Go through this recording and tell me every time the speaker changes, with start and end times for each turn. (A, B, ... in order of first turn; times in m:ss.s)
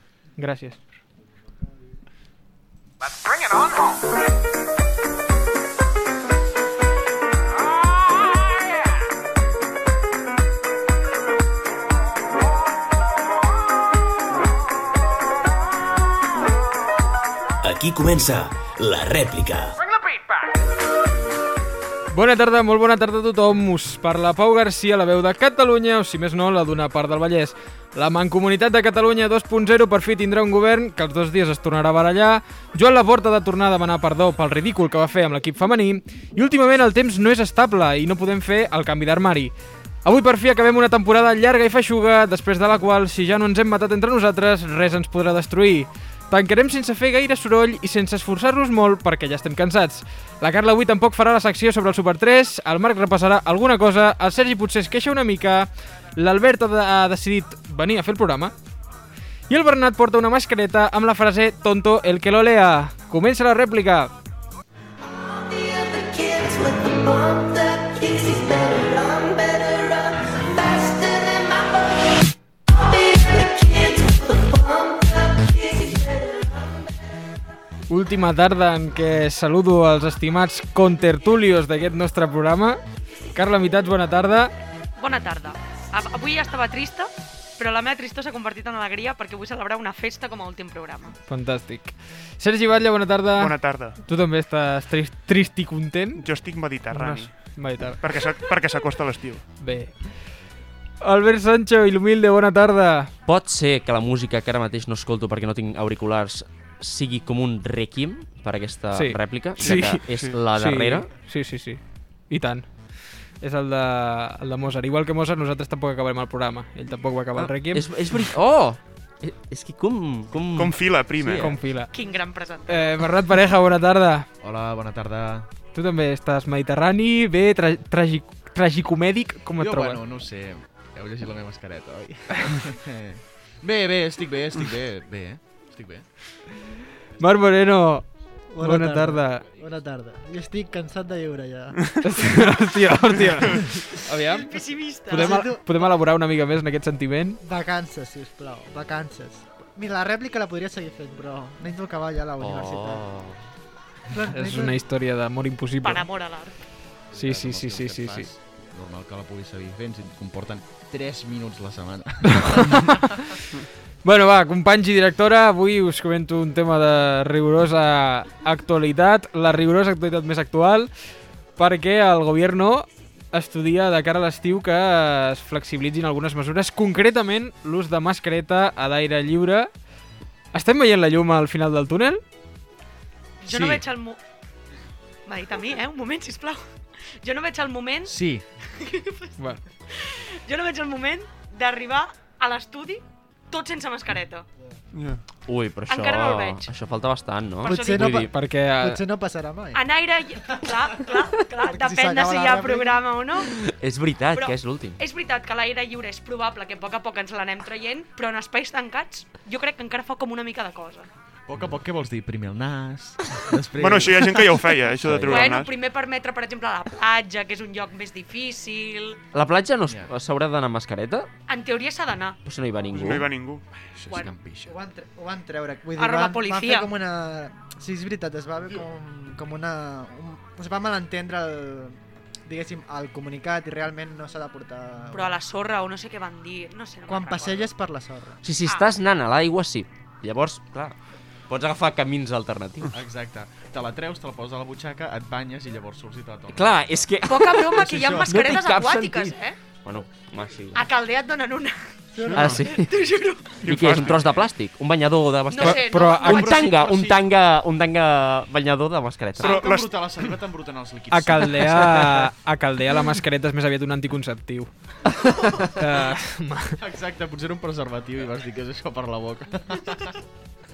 0:00.4-0:00.8 A
0:17.6-0:19.8 B
0:22.1-0:39.5 A
0:40.0-0:58.5 A
0:59.5-1:04.1 A
1:06.1-1:08.7 C
1:17.9-1:22.8 A
1:23.3-1:24.5 A
1:25.0-1:31.2 D
1:31.3-1:36.3 A
1:33.4-1:34.0 E
1:36.2-1:39.4 E
1:36.9-1:38.1 A
1:39.6-1:40.2 A
1:41.0-1:43.1 A
1:43.3-1:51.1 F
1:48.9-1:52.7 A
1:49.6-1:50.4 E
1:53.4-1:57.9 A
1:57.4-2:00.8 F
2:00.6-2:01.6 E
2:01.2-2:01.5 G
2:01.4-2:01.9 A
2:01.9-2:03.0 D
2:02.7-2:04.3 A
2:04.4-2:05.5 G
2:05.7-2:10.0 A
2:09.6-2:16.1 G
2:17.2-2:18.1 A
2:18.5-2:21.8 H
2:18.6-2:19.5 A
2:22.0-2:24.5 A
2:24.3-2:25.5 D
2:25.1-2:27.4 A
2:25.1-2:25.9 H
2:27.4-2:33.1 H
2:32.4-2:33.4 F
2:34.1-2:34.8 H
2:34.3-2:36.1 A
2:35.8-2:36.6 D
2:37.1-2:43.2 G
2:37.1-2:38.3 A
2:42.3-2:43.3 A
2:44.0-2:50.9 A
2:51.6-2:59.7 A
3:00.5-3:02.2 A
3:03.4-3:04.2 D
3:03.5-3:03.8 G
3:05.3-3:06.6 D
3:07.2-3:08.2 D
3:08.0-3:08.4 G
3:08.7-3:09.4 D
3:09.9-3:14.4 D
3:14.9-3:15.2 E
3:15.5-3:18.3 F
3:15.9-3:16.7 D
3:17.6-3:18.2 D
3:17.7-3:19.8 H
3:18.3-3:19.0 A
3:19.7-3:23.5 D
3:21.4-3:23.1 H
3:23.6-3:25.0 F
3:24.4-3:31.1 D
3:31.5-3:35.5 G
3:33.8-3:35.7 E
3:35.3-3:39.2 D
3:39.3-3:41.3 F
3:41.5-3:42.4 D
3:42.4-3:43.3 F
3:42.9-3:43.6 E
3:43.9-3:44.8 G
3:44.1-3:44.4 D
3:44.6-3:55.4 H
3:46.0-3:46.9 D
3:55.1-3:57.7 D
3:57.1-3:58.4 H
3:58.4-4:01.0 F
4:01.5-4:02.9 F
4:02.9-4:07.0 G
4:06.5-4:10.9 F
4:07.3-4:09.6 D
4:07.8-4:08.5 G
4:10.7-4:13.8 D
4:12.2-4:12.6 H
4:12.3-4:12.6 E
4:12.3-4:12.9 F
4:13.6-4:14.4 E
4:13.6-4:19.6 F
4:15.5-4:16.5 D
4:15.6-4:16.5 A
4:16.2-4:17.3 G
4:19.4-4:22.1 G
4:19.4-4:20.1 E
4:21.1-4:24.7 A
4:25.6-4:26.8 A
4:26.8-4:30.2 G